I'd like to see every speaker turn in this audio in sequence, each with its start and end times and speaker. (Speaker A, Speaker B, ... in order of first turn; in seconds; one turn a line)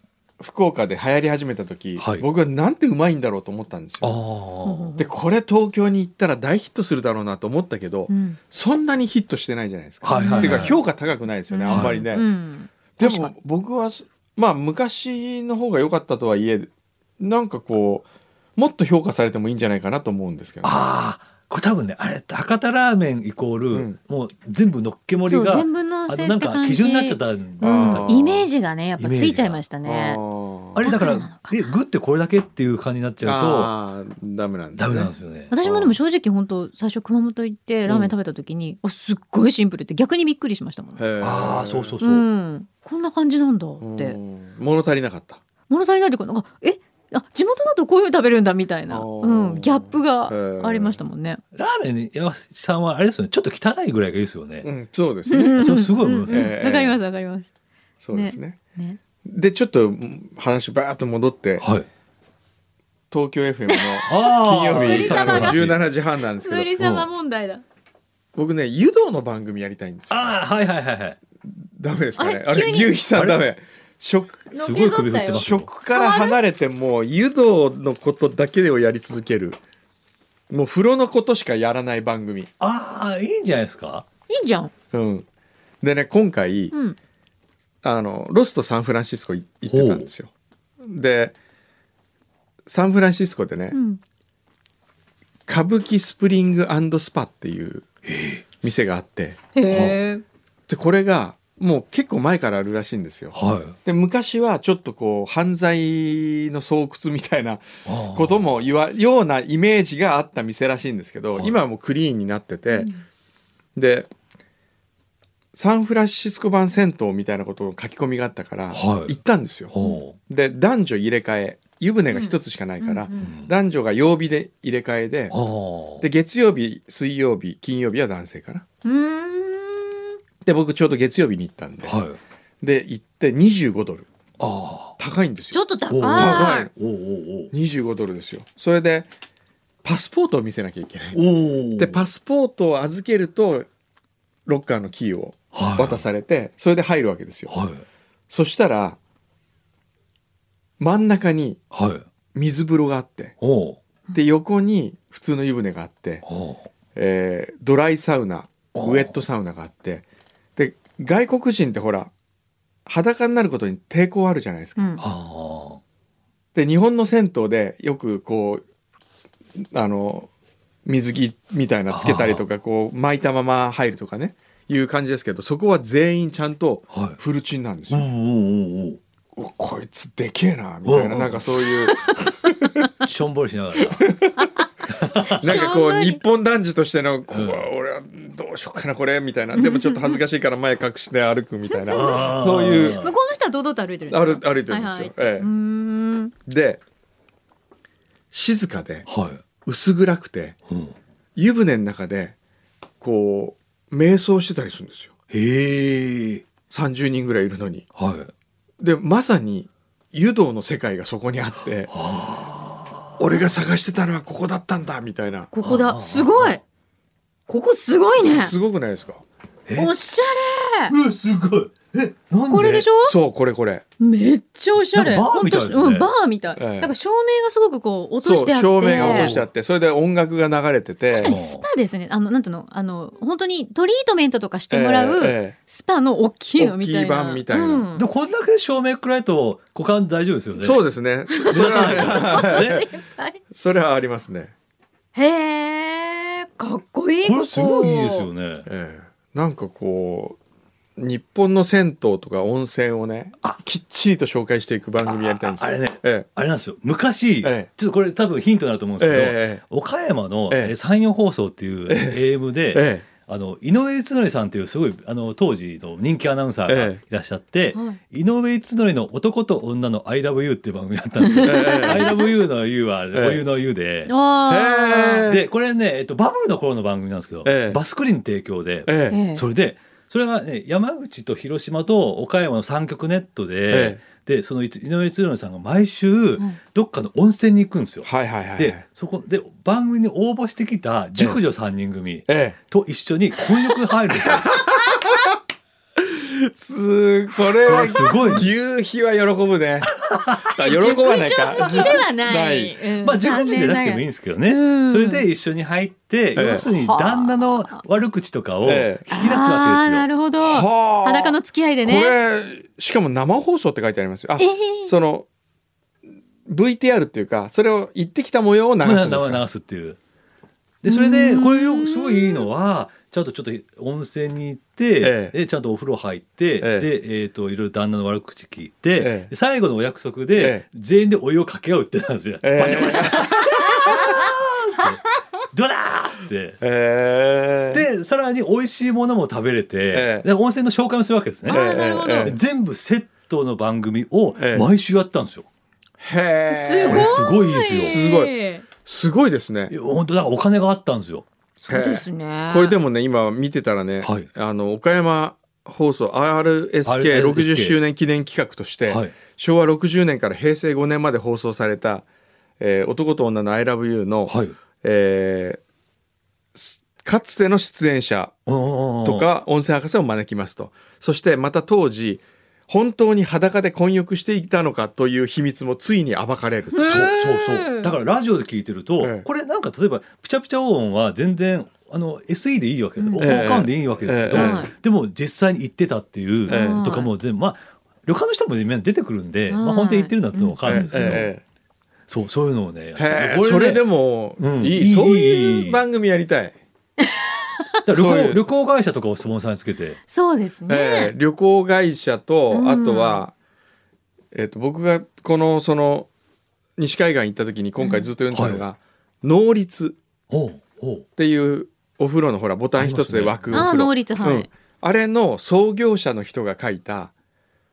Speaker A: 0.4-4.2
Speaker B: 2.0-2.2
Speaker B: 4.0-4.9
Speaker C: 4.7-5.1
Speaker A: 5.0-12.3
Speaker C: 8.1-8.4
Speaker B: 10.0-10.8
Speaker C: 10.1-10.7
Speaker C: 11.5-13.3
Speaker B: 11.7-12.0
Speaker A: 13.0-20.8
Speaker B: 20.6-29.6
Speaker A: 23.7-24.0
Speaker C: 25.2-30.2
Speaker A: 27.6-28.2
Speaker A: 29.8-30.9
Speaker B: 30.7-33.7
Speaker C: 30.8-31.7
Speaker A: 33.2-36.0
Speaker B: 34.8-35.5
Speaker C: 35.5-41.0
Speaker A: 37.9-38.1
Speaker A: 41.0-42.0
Speaker B: 41.2-42.2
Speaker C: 42.0-44.2
Speaker A: 43.8-45.4
Speaker C: 45.7-51.4
Speaker A: 48.9-51.0
Speaker B: 51.5-54.7
Speaker A: 54.6-55.7
Speaker C: 55.3-57.5
Speaker B: 55.6-56.5
Speaker A: 56.2-57.0
Speaker A: 58.0-58.6
Speaker C: 58.1-59.0
Speaker A: 59.2-61.6
Speaker B: 61.6-61.9
Speaker A: 63.1-66.7
Speaker C: 63.7-67.6
Speaker B: 64.1-65.8
Speaker B: 66.8-67.1
Speaker A: 68.3-70.3
Speaker B: 70.1-71.2
Speaker A: 71.5-74.5
Speaker C: 72.2-73.0
Speaker B: 73.1-73.4
Speaker C: 74.5-76.4
Speaker B: 74.5-75.7
Speaker A: 75.3-79.6
Speaker A: 80.5-82.5
Speaker B: 82.6-84.0
Speaker C: 84.3-84.7
Speaker A: 84.9-85.2
Speaker A: 85.8-86.7
Speaker A: 87.8-90.3
Speaker B: 89.7-90.1
Speaker A: 90.8-91.3
Speaker A: 92.7-93.8
Speaker C: 93.7-94.0
Speaker A: 95.5-97.9
Speaker B: 98.0-98.4
Speaker A: 98.6-99.4
Speaker C: 99.5-100.2
Speaker B: 99.7-100.0
Speaker A: 100.7-112.9
Speaker B: 103.3-103.8
Speaker B: 107.8-108.5
Speaker C: 112.7-113.0
Speaker A: 113.7-114.1
Speaker A: 115.5-119.7
Speaker B: 118.7-119.2
Speaker B: 119.7-120.2
Speaker A: 120.2-125.3
Speaker C: 122.1-123.3
Speaker B: 123.2-123.5
Speaker B: 125.3-126.0
Speaker A: 126.0-128.6
Speaker C: 128.8-130.2
Speaker A: 130.4-132.0
Speaker B: 131.8-132.2
Speaker A: 132.6-134.1
Speaker B: 134.4-135.0
Speaker A: 135.0-136.7
Speaker C: 135.5-136.7
Speaker B: 135.9-137.5
Speaker A: 137.5-139.1
Speaker A: 139.8-141.2
Speaker B: 141.1-142.0
Speaker A: 141.7-143.7
Speaker A: 144.4-147.5
Speaker B: 145.5-146.0
Speaker B: 147.5-147.8
Speaker A: 148.3-149.0
Speaker A: 150.8-151.6
Speaker B: 151.7-152.1
Speaker A: 152.3-153.3
Speaker B: 153.4-153.8
Speaker A: 154.1-156.2
Speaker B: 156.2-156.7
Speaker A: 156.9-160.0
Speaker B: 158.7-159.2
Speaker A: 160.6-162.1
Speaker A: 162.8-165.0
Speaker C: 164.8-165.0
Speaker B: 165.0-165.8
Speaker A: 166.5-168.6
Speaker A: 169.6-170.3
Speaker A: 170.8-178.1
Speaker B: 171.9-172.4
Speaker B: 176.9-177.2
Speaker B: 177.9-179.0
Speaker A: 179.3-182.8
Speaker B: 180.8-181.6
Speaker B: 183.0-184.2
Speaker A: 183.9-184.4
Speaker C: 184.3-184.7
Speaker B: 184.9-185.6
Speaker C: 185.2-186.2
Speaker A: 185.4-193.0
Speaker B: 187.3-187.7
Speaker C: 189.5-190.2
Speaker C: 191.7-192.3
Speaker B: 191.9-193.1
Speaker C: 192.8-196.3
Speaker A: 194.1-195.5
Speaker A: 196.4-196.8
Speaker A: 198.3-199.1
Speaker B: 199.1-199.4
Speaker A: 199.6-200.6
Speaker B: 200.7-200.9
Speaker A: 201.3-202.3
Speaker A: 203.0-205.1
Speaker B: 205.3-206.4
Speaker A: 206.7-207.8
Speaker B: 207.9-208.3
Speaker A: 208.8-211.9
Speaker B: 211.9-213.2
Speaker A: 213.2-215.5
Speaker C: 215.5-216.6
Speaker B: 215.6-216.6
Speaker C: 217.5-218.5
Speaker A: 218.2-219.2
Speaker B: 219.7-219.9
Speaker C: 219.8-220.9
Speaker B: 220.9-222.9
Speaker C: 222.5-223.2
Speaker A: 223.0-223.8
Speaker C: 224.0-229.3
Speaker B: 224.8-226.1
Speaker A: 226.6-226.9
Speaker A: 228.2-231.3
Speaker B: 228.9-229.4
Speaker C: 231.1-238.1
Speaker B: 231.2-231.6
Speaker A: 234.7-235.6
Speaker A: 236.6-237.9
Speaker B: 237.9-240.8
Speaker A: 240.6-242.9
Speaker C: 241.3-243.4
Speaker B: 241.4-242.8
Speaker A: 243.5-244.5
Speaker C: 245.1-248.3
Speaker B: 247.2-248.7
Speaker A: 248.7-250.4
Speaker A: 251.0-256.3
Speaker B: 255.0-274.1
Speaker A: 257.4-257.7
Speaker A: 259.0-259.6
Speaker A: 260.5-260.7
Speaker A: 261.9-263.1
Speaker A: 266.7-267.0
Speaker C: 271.3-272.1
Speaker A: 271.4-272.1
Speaker A: 273.1-273.4
Speaker C: 274.1-275.3
Speaker A: 274.5-275.4
Speaker B: 275.2-294.5
Speaker A: 277.4-277.8
Speaker A: 278.9-279.2
Speaker C: 279.1-279.4
Speaker A: 283.7-284.0
Speaker A: 288.0-288.8
Speaker A: 292.3-292.6
Speaker A: 294.1-295.2
Speaker A: 296.0-302.8
Speaker B: 297.4-298.5
Speaker C: 297.8-298.4
Speaker B: 299.9-300.5
Speaker C: 300.6-305.2
Speaker B: 301.6-302.0
Speaker B: 303.0-310.1
Speaker A: 306.4-306.6
Speaker C: 306.4-307.8
Speaker A: 308.6-309.1
Speaker C: 309.1-312.1
Speaker A: 310.4-315.3
Speaker C: 314.4-314.9
Speaker A: 316.4-319.4
Speaker B: 318.8-320.0
Speaker B: 320.8-336.6
Speaker C: 320.9-322.4
Speaker A: 325.0-325.3
Speaker A: 326.6-326.9
Speaker A: 329.0-329.3
Speaker A: 330.3-330.6
Speaker A: 332.4-334.0
Speaker A: 336.6-337.9
Speaker B: 337.7-341.7
Speaker A: 339.9-340.3
Speaker C: 341.5-342.4
Speaker A: 341.5-342.4
Speaker B: 342.2-345.5
Speaker A: 344.4-344.7
Speaker A: 346.0-347.3
Speaker C: 346.5-348.7
Speaker B: 346.8-348.0
Speaker A: 347.9-348.3
Speaker A: 348.8-349.7
Speaker B: 349.7-351.2
Speaker C: 351.6-352.8
Speaker A: 351.7-362.1
Speaker B: 354.0-354.3
Speaker B: 356.8-357.8
Speaker B: 358.9-359.1
Speaker A: 362.6-365.6
Speaker B: 364.3-364.6
Speaker A: 366.5-368.4
Speaker B: 368.5-369.3
Speaker A: 369.0-377.0
Speaker C: 376.7-377.9
Speaker B: 376.8-391.3
Speaker A: 379.0-379.3
Speaker C: 383.0-383.5
Speaker A: 383.2-384.7
Speaker C: 384.3-384.7
Speaker A: 386.5-386.9
Speaker C: 386.5-387.1
Speaker C: 389.5-391.2
Speaker A: 390.6-391.4
Speaker B: 392.1-393.8
Speaker A: 392.9-396.6
Speaker B: 394.4-395.8
Speaker C: 397.0-397.6
Speaker B: 397.8-400.0
Speaker A: 397.9-398.4
Speaker C: 400.1-401.1
Speaker A: 400.7-403.3
Speaker C: 402.5-403.2
Speaker A: 404.3-406.1
Speaker A: 406.8-410.0
Speaker C: 407.8-408.1
Speaker B: 408.3-408.6
Speaker B: 410.3-411.1
Speaker A: 411.2-417.1
Speaker B: 412.8-413.7
Speaker C: 413.5-414.5